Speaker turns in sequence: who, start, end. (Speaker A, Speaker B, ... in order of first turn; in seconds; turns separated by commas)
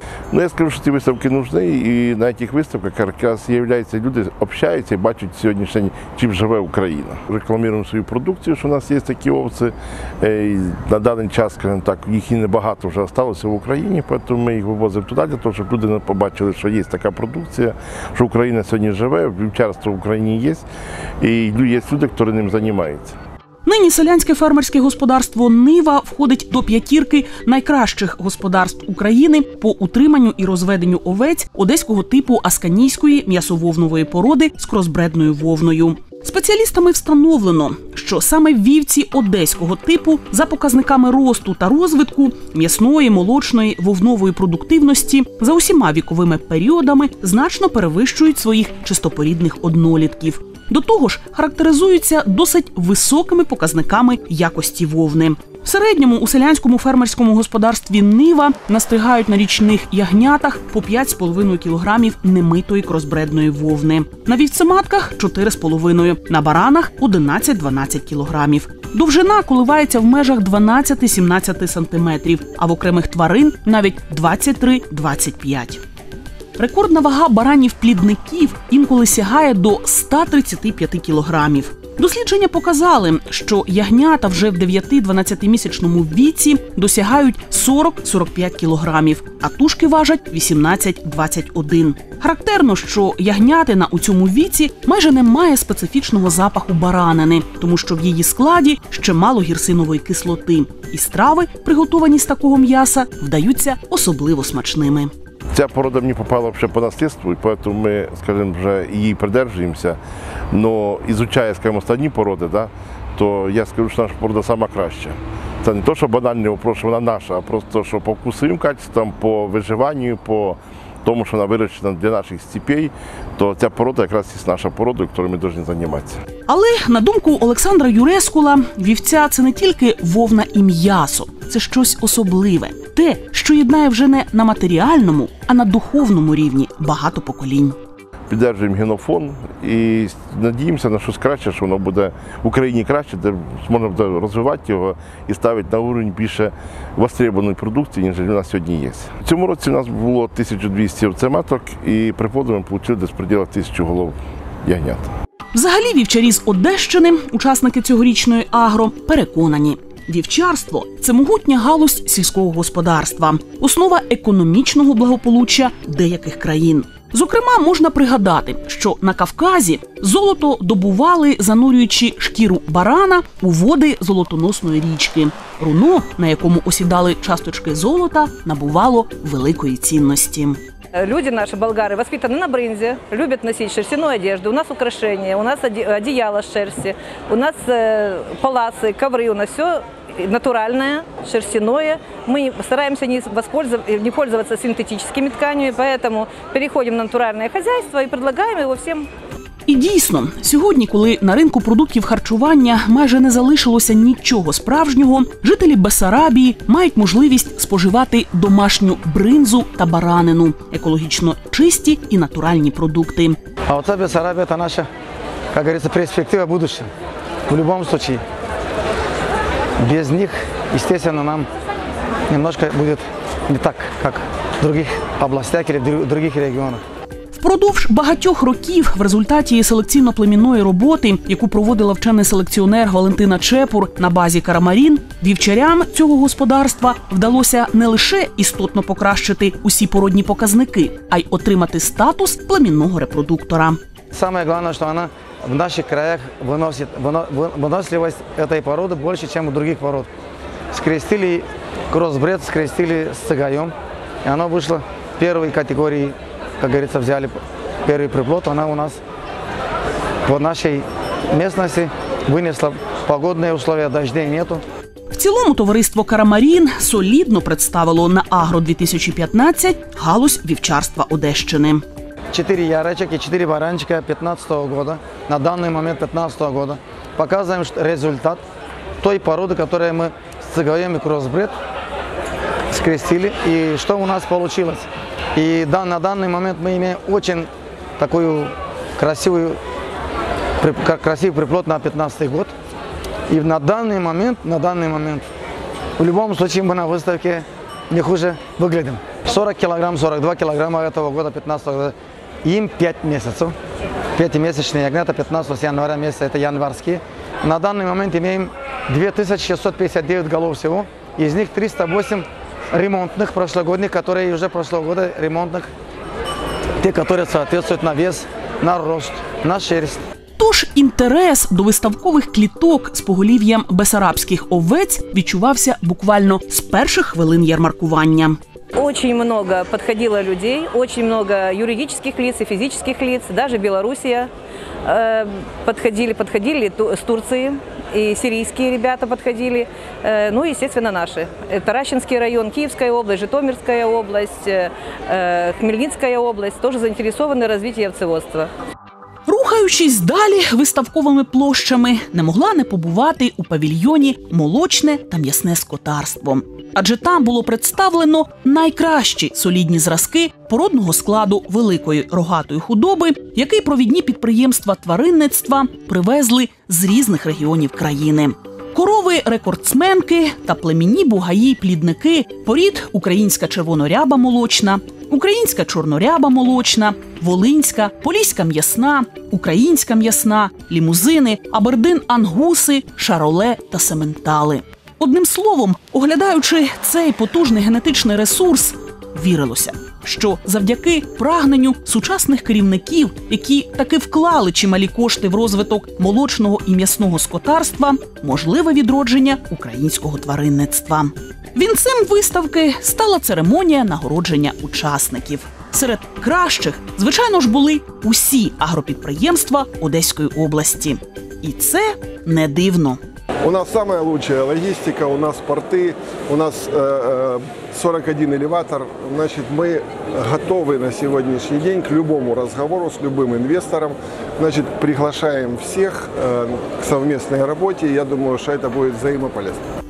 Speaker A: 0.3-20.6, Speaker A: 21.2-23.1, Speaker B: 23.7-75.8, Speaker B: 76.6-105.1, Speaker A: 105.5-110.0, Speaker A: 110.5-126.2, Speaker B: 126.5-137.8, Speaker A: 138.3-155.1, Speaker B: 155.5-180.6, Speaker C: 180.9-199.1, Speaker B: 199.7-213.4, Speaker D: 213.7-214.9, Speaker D: 215.5-216.9, Speaker D: 217.5-218.2, Speaker D: 219.8-221.5, Speaker D: 222.3-226.8, Speaker B: 227.3-243.8, Speaker D: 244.1-250.1, Speaker D: 250.7-259.0, Speaker D: 260.2-264.6, Speaker B: 265.1-271.9, Speaker D: 272.3-278.4, Speaker D: 279.0-281.5, Speaker D: 282.7-289.6, Speaker D: 290.6-292.5, Speaker D: 293.3-295.3, Speaker D: 296.0-303.6, Speaker D: 304.2-315.7, Speaker D: 316.8-320.0, Speaker B: 320.4-328.4, Speaker C: 328.7-334.3, Speaker C: 334.9-348.5, Speaker B: 349.3-413.0, Speaker E: 413.4-429.6